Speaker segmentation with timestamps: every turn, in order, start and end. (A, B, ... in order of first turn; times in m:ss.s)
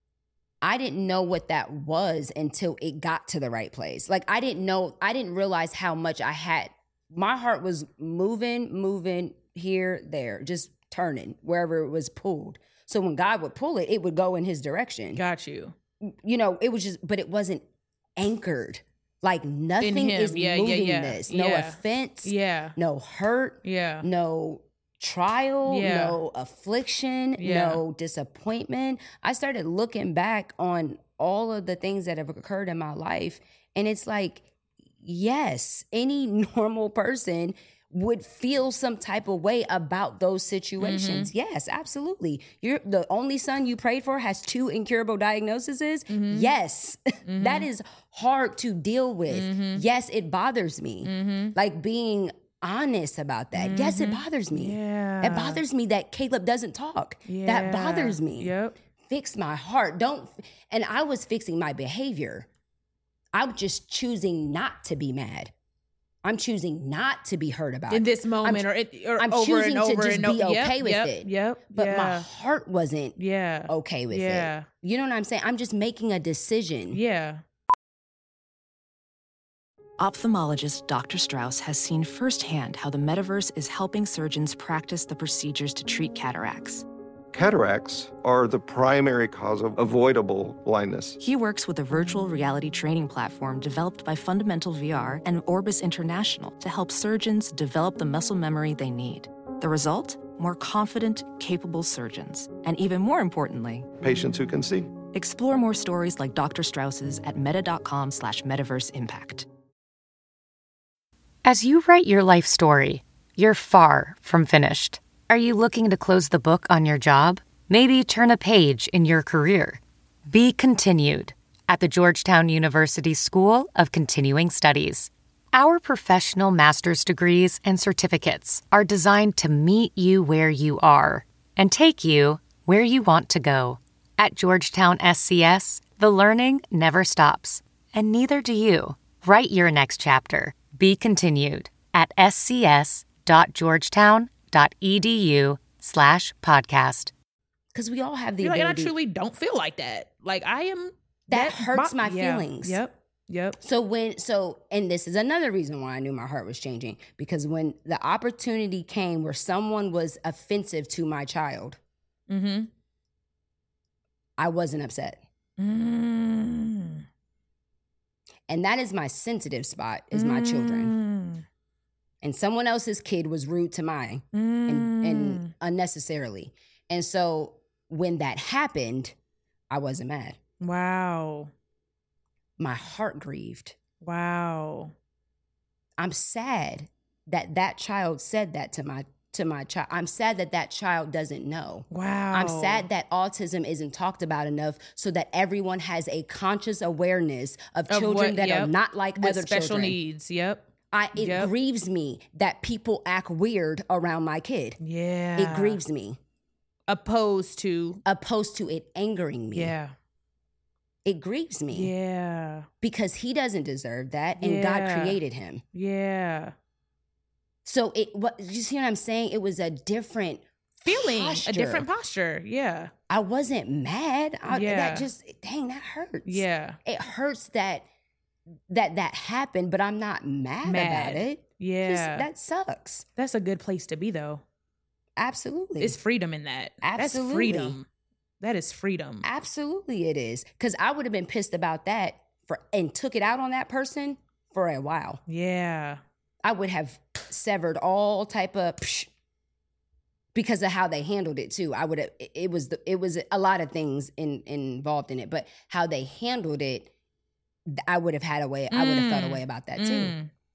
0:00.6-0:15.2 A
0:15.1-0:15.7 B
0:16.0-0:17.6 A
0:18.2-0:34.5 A
0:19.8-0:22.8 B
0:23.6-0:24.0 B
0:25.6-0:26.2 B
0:27.4-0:27.8 B
0:35.0-0:58.5 A
0:40.8-0:41.3 B
0:46.1-0:46.5 B
0:47.2-0:47.7 B
0:49.3-0:49.8 B
0:51.0-0:51.5 B
0:53.5-0:55.6 B
0:57.2-0:58.8 B
0:59.0-1:02.5 A
1:03.3-1:05.5 A
1:06.2-1:08.6 A
1:07.9-1:12.3 B
1:09.2-1:13.2 A
1:13.2-1:14.7 B
1:13.7-1:17.0 A
1:16.9-1:17.4 B
1:20.0-1:26.8 C
1:27.3-1:31.2 D
1:31.2-1:43.9 C
1:44.0-1:44.9 D
1:45.1-1:49.4 C
1:51.4-2:27.1 E
2:27.7-2:28.9 A
2:28.4-2:33.6 B
2:31.3-2:32.8 A
2:33.6-2:41.8 A
2:42.3-2:42.7 B
2:44.4-2:45.2 A
2:45.6-2:47.0 B
2:48.5-2:50.9 A
2:50.1-2:51.4 B
2:52.2-2:59.1 A
2:54.3-2:55.5 B
2:59.7-3:00.4 A
3:00.6-3:01.5 B
3:02.6-3:03.7 A
3:04.0-3:04.9 B
3:06.0-3:20.0 A
3:11.9-3:12.8 B
3:17.9-3:21.5 B
3:20.9-3:24.8 A
3:24.8-3:25.8 B
3:25.4-3:26.2 A
3:26.9-3:28.0 B
3:28.0-3:29.7 A
3:29.5-3:29.9 B
3:31.0-3:31.9 A
3:31.7-3:32.7 B
3:32.8-3:35.6 A
3:34.4-3:35.2 B
3:35.7-3:36.5 B
3:37.6-3:41.9 A
3:40.8-3:42.9 B
3:43.1-3:47.8 A
3:44.5-3:45.1 B
3:46.2-3:46.8 B
3:48.7-3:53.0 A
3:50.6-3:52.3 B
3:53.2-3:54.4 B
3:55.2-3:56.0 A
3:55.8-3:57.9 B
3:56.8-3:57.8 A
3:58.4-3:59.2 B
3:59.2-4:05.2 A
4:05.3-4:06.0 B
4:06.4-4:09.1 A
4:10.3-4:16.9 A
4:17.7-4:20.2 A
4:18.7-4:20.3 B